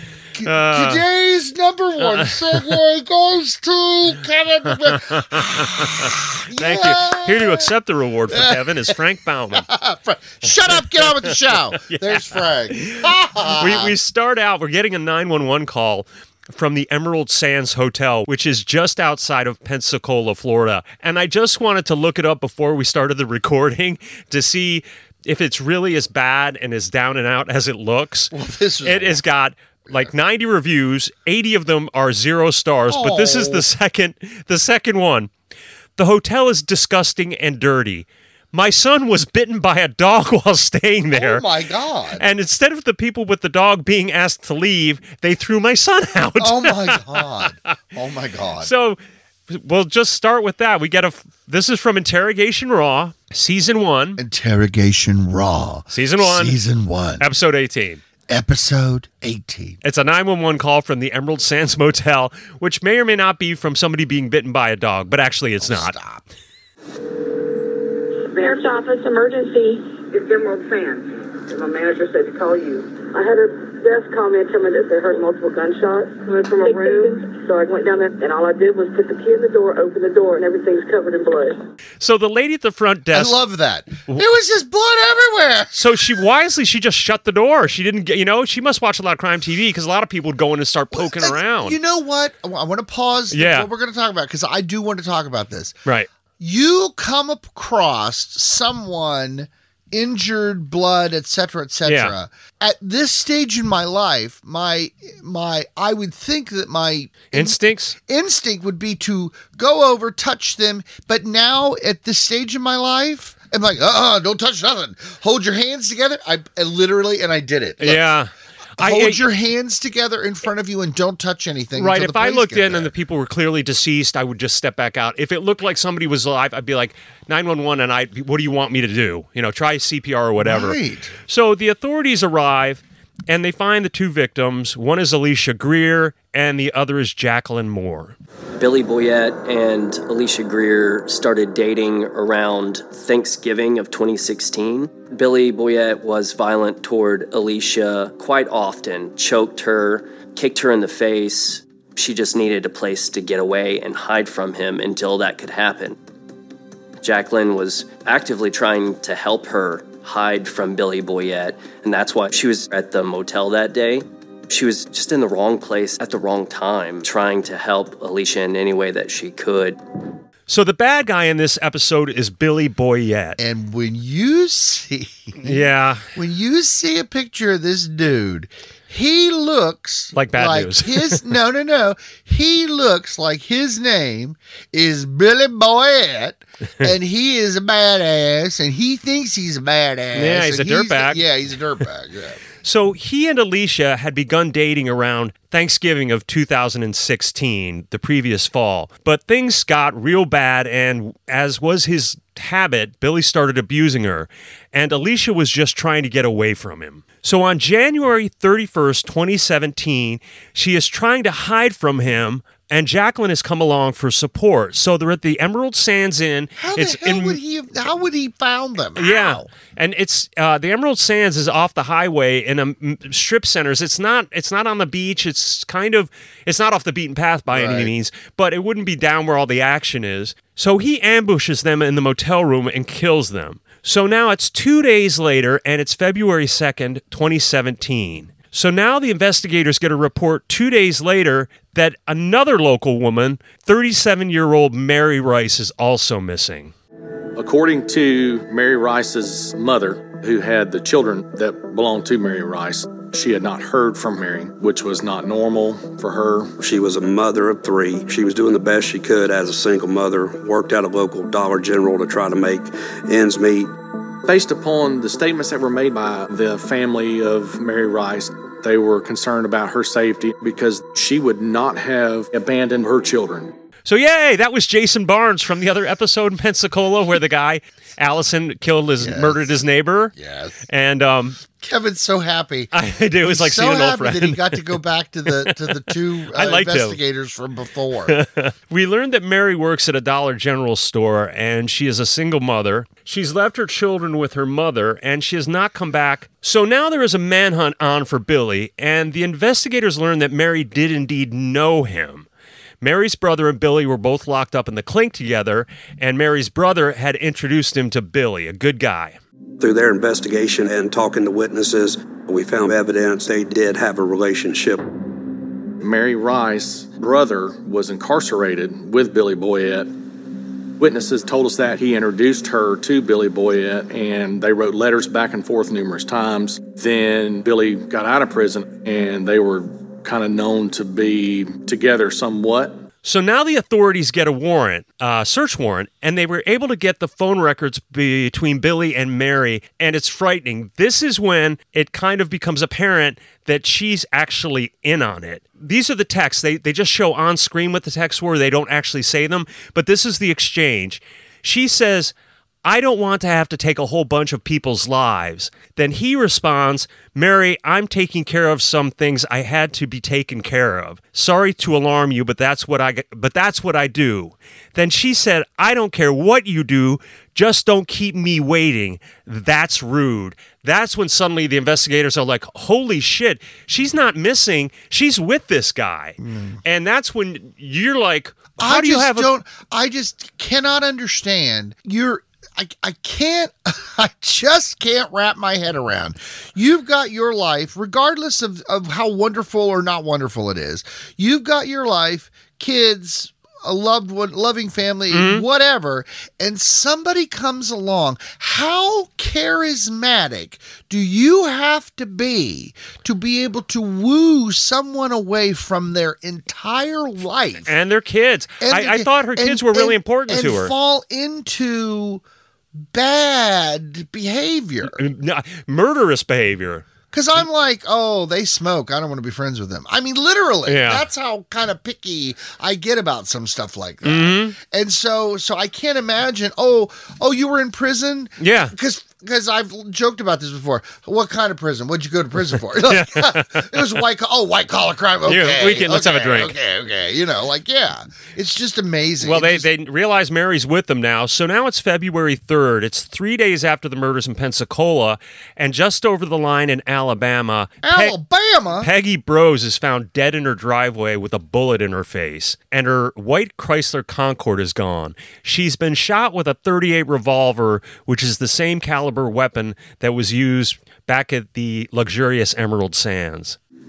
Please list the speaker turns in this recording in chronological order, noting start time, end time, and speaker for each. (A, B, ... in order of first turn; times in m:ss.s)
0:00.4-0:07.7 A
0:00.4-0:01.0 B
0:02.0-0:02.8 B
0:04.7-0:09.7 B
0:08.3-0:09.0 A
0:09.5-0:13.9 A
0:10.5-0:28.3 B
0:28.3-0:29.2 A
0:28.8-0:35.3 B
0:32.9-0:33.7 A
0:36.0-0:41.4 B
0:41.1-0:42.2 A
0:42.2-0:47.3 B
0:46.4-0:48.7 A
0:48.6-0:54.2 B
0:54.2-0:57.2 A
0:55.9-0:56.6 B
0:57.2-0:58.0 B
0:58.3-0:59.8 A
0:59.8-1:05.9 B
1:05.6-1:06.2 A
1:08.2-1:21.6 C
1:22.0-1:23.4 B
1:23.1-1:25.8 A
1:25.7-1:31.8 B
1:30.9-1:35.7 A
1:33.3-1:33.7 B
1:36.4-1:58.1 A
1:41.8-1:42.1 B
1:47.3-1:48.0 B
1:57.8-1:59.2 B
1:58.8-2:02.9 A
2:01.7-2:18.1 B
2:10.4-2:11.1 A
2:18.6-2:36.0 D
2:37.0-2:49.8 D
2:50.5-2:53.4 B
2:53.4-3:12.4 A
2:55.4-2:56.0 B
3:00.1-3:01.2 B
3:10.1-3:11.2 B
3:12.6-3:37.4 B
3:36.6-3:39.5 A
3:39.0-4:06.7 B
3:47.5-3:47.9 A
4:07.4-4:16.5 E
4:16.6-4:23.7 F
4:24.3-4:33.5 E
4:33.8-4:40.1 B
4:39.0-4:39.5 A
4:40.1-4:40.6 A
4:40.7-4:41.4 B
4:41.5-4:42.7 A
4:42.7-4:47.0 B
4:43.2-4:48.2 A
4:48.1-5:02.3 B
5:02.8-5:09.2 B
5:09.6-5:14.8 F
5:15.8-5:19.9 E
5:20.8-5:32.8 E
5:33.0-5:52.1 B
5:52.6-6:19.3 B
6:16.2-6:16.6 A
6:18.6-6:47.7 A
6:35.1-6:35.4 B
6:47.6-6:50.7 B
6:48.6-6:52.2 A
6:52.9-6:55.0 A
6:54.8-6:56.8 B
6:57.1-7:19.6 A
7:00.7-7:01.0 B
7:04.0-7:04.6 B
7:08.4-7:08.7 B
7:12.5-7:14.0 B
7:15.2-7:16.5 B
7:19.2-7:28.2 B
7:27.8-7:28.9 A
7:28.8-7:43.6 B